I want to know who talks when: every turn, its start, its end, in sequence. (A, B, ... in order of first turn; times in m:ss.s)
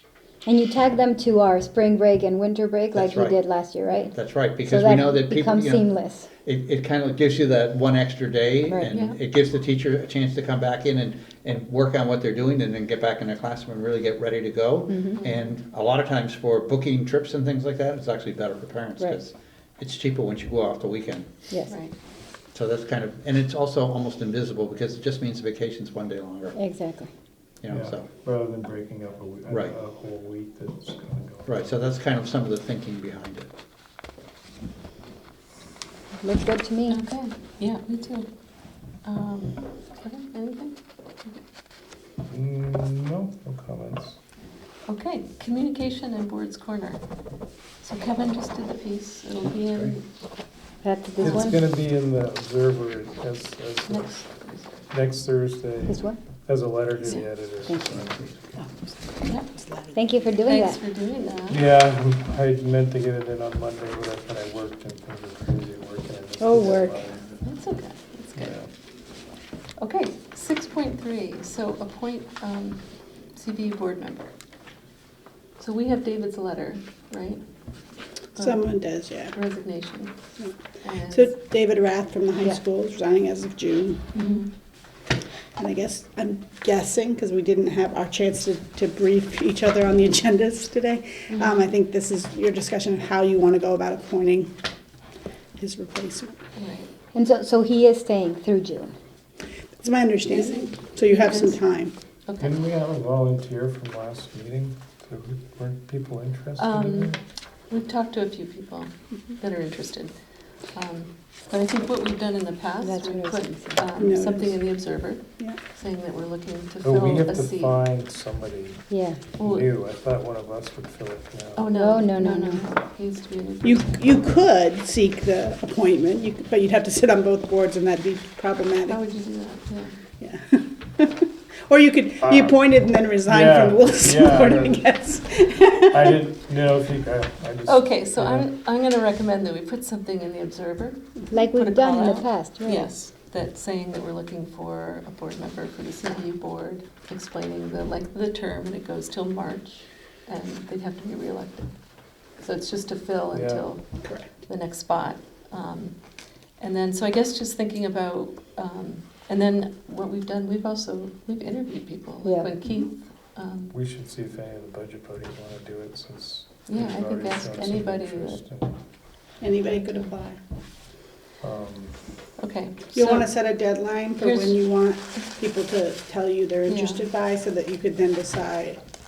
0:00.4-0:06.3 A
0:02.9-0:03.4 B
0:04.1-0:21.3 B
0:08.7-0:08.9 A
0:08.9-0:09.2 C
0:14.9-0:15.2 A
0:21.5-0:21.8 A
0:21.7-0:21.9 C
0:22.5-0:26.6 B
0:26.6-0:27.1 A
0:27.6-0:28.1 B
0:27.7-0:31.7 D
0:29.5-0:29.8 B
0:31.4-0:33.5 B
0:36.2-0:37.0 A
0:36.9-0:38.3 C
0:39.0-0:41.4 C
0:42.3-0:44.2 D
0:44.9-0:47.0 C
0:47.8-0:50.0 C
0:49.4-0:50.0 B
0:50.8-0:51.6 A
0:51.2-0:54.2 D
0:51.2-0:51.5 C
0:53.9-0:54.8 C
0:54.9-0:58.6 D
0:55.9-0:56.2 A
0:57.0-0:57.3 C
0:57.7-0:58.0 A
0:57.7-0:58.3 B
0:58.6-1:00.2 E
0:59.9-1:00.8 A
1:00.4-1:01.6 C
1:01.5-1:07.3 D
1:06.4-1:07.0 A
1:07.4-1:08.6 C
1:08.4-1:08.7 D
1:09.8-1:12.8 C
1:13.3-1:14.3 C
1:15.6-1:17.4 C
1:18.4-1:18.6 C
1:18.4-1:19.3 E
1:19.3-1:20.1 C
1:20.8-1:21.3 C
1:21.1-1:24.2 E
1:24.1-1:24.5 C
1:25.6-1:34.5 E
1:31.3-1:31.6 C
1:35.6-1:36.4 E
1:36.6-1:36.9 C
1:37.1-1:38.9 A
1:39.8-1:41.9 E
1:41.1-1:41.6 C
1:42.3-1:42.6 C
1:42.4-1:47.2 D
1:46.6-1:47.2 C
1:47.7-1:50.1 C
1:50.7-1:57.8 C
1:52.8-1:53.8 A
1:54.0-1:54.6 E
1:56.8-2:01.7 D
1:58.9-1:59.2 A
1:59.4-1:59.7 C
2:01.6-2:03.9 C
2:01.7-2:02.7 A
2:03.6-2:09.0 E
2:08.9-2:09.9 C
2:10.2-2:16.2 E
2:12.2-2:12.6 D
2:13.2-2:14.8 D
2:15.9-2:18.5 D
2:17.7-2:21.0 C
2:21.3-2:22.9 A
2:21.5-2:31.8 C
2:32.4-2:33.9 C
2:33.3-2:33.7 D
2:34.0-2:34.3 E
2:34.4-2:36.0 C
2:36.6-2:43.7 C
2:42.2-2:42.5 A
2:43.7-2:48.8 D
2:46.7-2:48.4 C
2:49.4-2:50.4 E
2:51.4-2:52.0 D
2:52.4-2:53.3 C
2:52.9-2:58.8 E
2:54.2-2:54.6 C
2:56.7-2:57.0 C